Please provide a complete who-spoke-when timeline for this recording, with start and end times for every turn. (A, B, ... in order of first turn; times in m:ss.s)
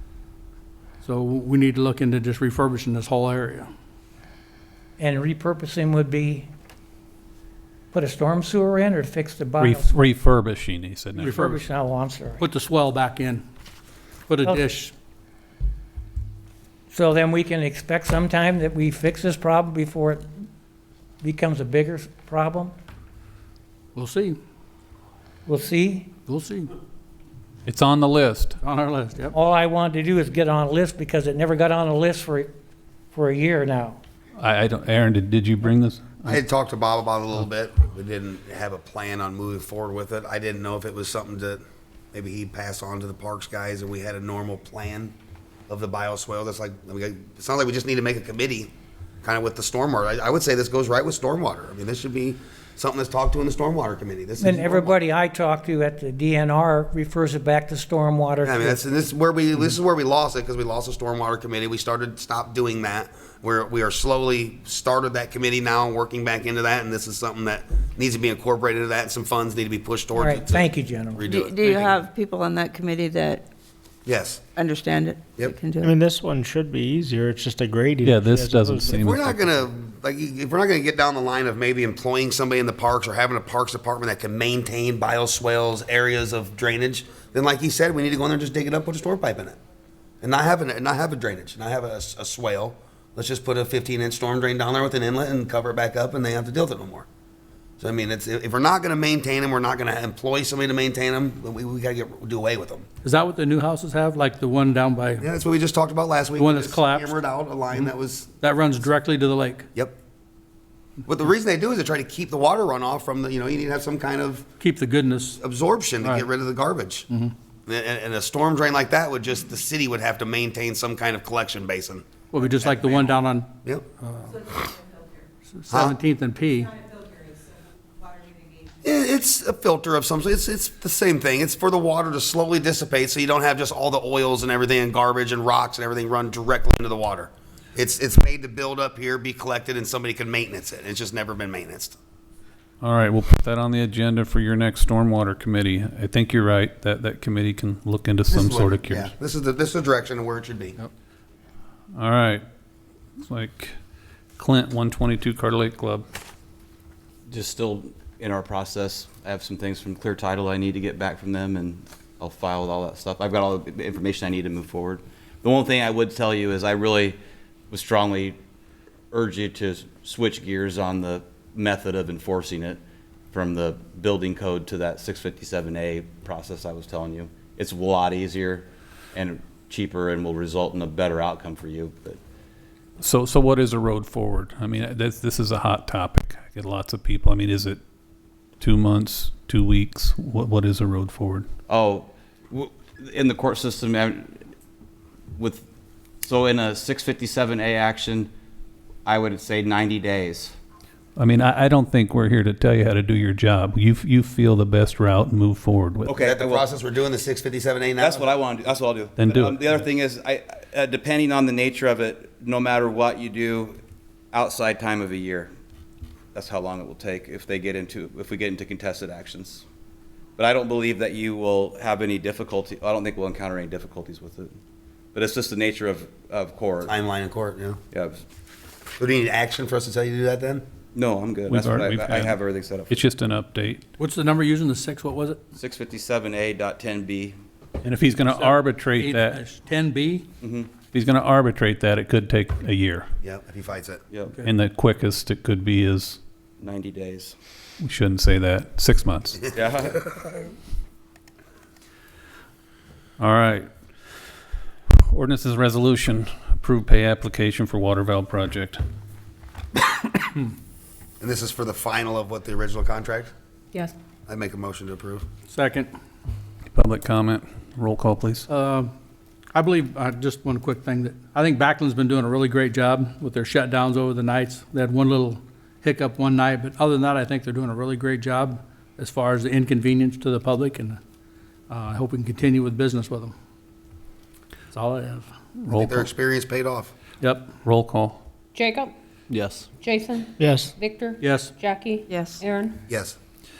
0:01.0-0:03.7 A
0:05.0-0:06.5 B
0:07.9-0:09.9 B
0:09.6-0:11.4 C
0:11.2-0:11.6 A
0:11.4-0:12.4 B
0:12.4-0:13.4 A
0:14.3-0:14.9 A
0:16.9-0:20.2 B
0:21.2-0:22.7 B
0:23.9-0:24.4 A
0:25.4-0:26.1 B
0:26.3-0:26.7 A
0:27.6-0:28.5 C
0:28.6-0:29.3 A
0:29.3-0:32.5 B
0:33.1-0:34.0 B
0:34.4-0:36.4 C
0:36.2-0:41.6 D
0:42.1-0:45.1 D
0:45.7-0:48.7 D
0:49.2-0:54.9 D
0:54.4-0:58.8 B
0:58.4-1:12.0 D
1:10.1-1:11.3 B
1:11.3-1:13.4 E
1:14.0-1:14.4 D
1:14.6-1:15.9 E
1:15.8-1:19.2 F
1:18.0-1:19.6 C
1:18.9-1:29.6 D
1:30.2-1:37.0 D
1:37.8-1:42.8 D
1:43.0-1:45.2 A
1:45.2-1:48.3 D
1:46.4-1:47.2 A
1:48.4-1:49.6 A
1:51.0-1:54.4 D
1:54.6-1:55.4 A
1:55.4-1:57.1 D
1:56.0-1:56.2 A
1:57.6-2:03.1 D
2:02.3-2:03.5 A
2:04.0-2:04.6 A
2:05.5-2:06.8 A
2:05.7-2:06.0 D
2:08.8-2:22.0 D
2:22.8-2:29.1 C
2:28.3-2:30.8 D
2:31.9-2:32.4 C
2:33.2-2:33.7 C
2:34.4-2:36.0 C
2:37.3-2:47.2 G
2:47.7-2:48.4 G
2:49.1-2:52.8 G
2:53.3-3:02.2 G
3:03.0-3:07.8 C
3:08.6-3:11.4 C
3:11.7-3:14.4 G
3:15.4-3:15.6 G
3:16.2-3:18.3 G
3:19.0-3:20.5 G
3:21.2-3:26.2 C
3:26.0-3:26.7 G
3:26.2-3:28.2 D
3:28.0-3:33.8 G
3:29.2-3:29.7 C
3:34.3-3:35.5 G
3:36.3-3:39.6 G
3:40.4-3:44.5 G
3:45.1-3:46.9 G
3:46.8-3:47.8 D
3:47.9-3:48.2 G
3:49.0-3:50.6 D
3:50.9-3:53.0 G
3:51.5-3:52.4 C
3:52.9-3:53.8 C
3:54.0-3:55.4 A
3:55.6-3:57.3 G
3:57.8-3:59.4 C
3:58.3-4:00.2 A
4:00.4-4:00.7 G
4:00.9-4:03.1 C
4:03.2-4:04.0 D
4:04.4-4:06.2 C
4:06.6-4:07.3 G
4:07.8-4:09.4 C
4:09.5-4:10.2 G
4:13.2-4:13.7 C
4:15.1-4:18.8 C
4:21.2-4:23.3 D
4:24.3-4:25.2 D
4:25.5-4:25.9 A
4:26.7-4:28.4 C
4:28.5-4:28.9 A
4:29.5-4:41.0 A
4:41.7-4:43.3 A
4:44.7-4:45.3 A
4:45.6-4:46.1 C
4:45.7-4:46.9 D
4:47.2-4:47.5 A
4:47.6-4:48.2 C
4:48.5-4:48.9 H
4:49.3-4:49.6 G
4:49.8-4:52.8 H
4:50.4-4:50.7 F
4:51.2-4:51.5 A
4:52.1-4:52.4 E
4:52.9-4:53.2 D